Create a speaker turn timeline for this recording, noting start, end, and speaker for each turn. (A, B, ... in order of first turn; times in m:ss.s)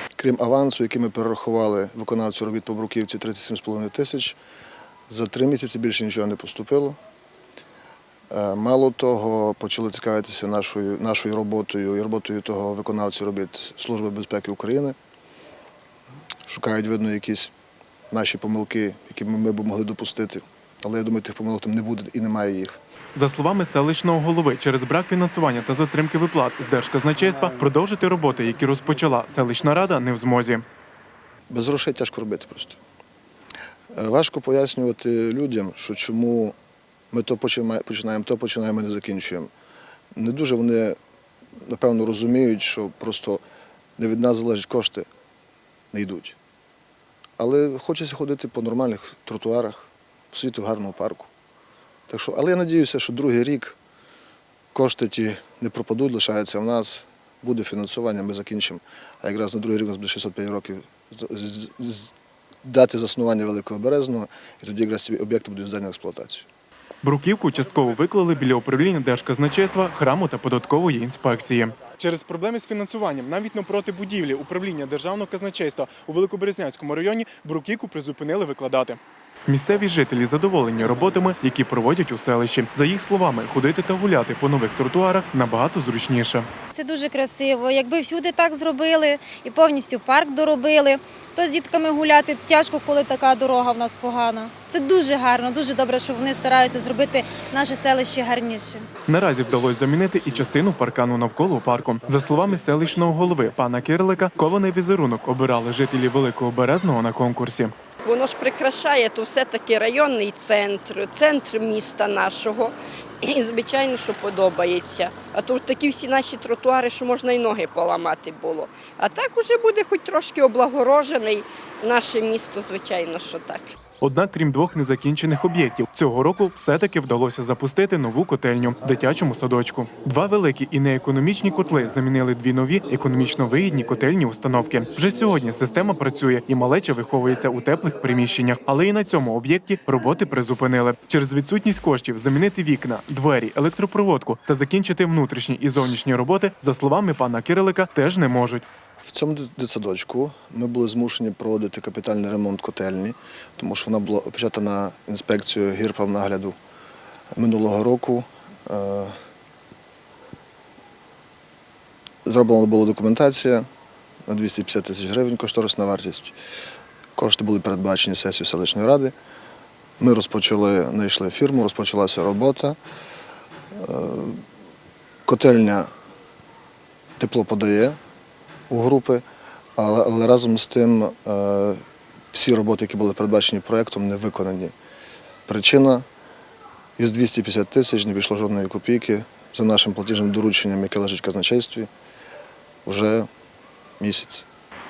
0:00.2-0:04.4 A
0:05.1-0:07.0 A
0:08.3-0:15.0 A
0:16.5-0:17.5 A
0:18.1-0:22.8 A
0:23.2-0:30.6 B
0:31.5-0:32.8 A
0:33.9-0:36.6 A
0:37.1-0:39.5 A
0:40.2-0:41.0 A
0:41.6-0:43.4 A
0:44.0-0:45.1 A
0:45.9-0:46.4 A
0:47.4-0:51.3 A
0:52.1-0:53.8 A
0:54.7-1:02.1 A
1:02.6-1:06.5 A
1:07.0-1:26.5 B
1:26.7-1:38.9 C
1:39.1-1:47.7 B
1:48.0-2:03.7 D
2:04.0-2:28.7 B
2:29.0-2:36.6 A
2:37.3-2:39.2 A
2:42.2-2:43.7 A
2:44.3-2:46.4 A
2:47.2-2:49.1 A
2:50.0-2:52.8 A
2:53.7-2:54.4 A
2:55.3-2:55.9 A
2:57.2-2:58.0 A
2:58.7-2:59.2 A
2:59.8-3:04.7 A
3:05.5-3:06.0 A
3:07.0-3:11.9 A
3:12.8-3:13.3 A
3:14.0-3:14.5 A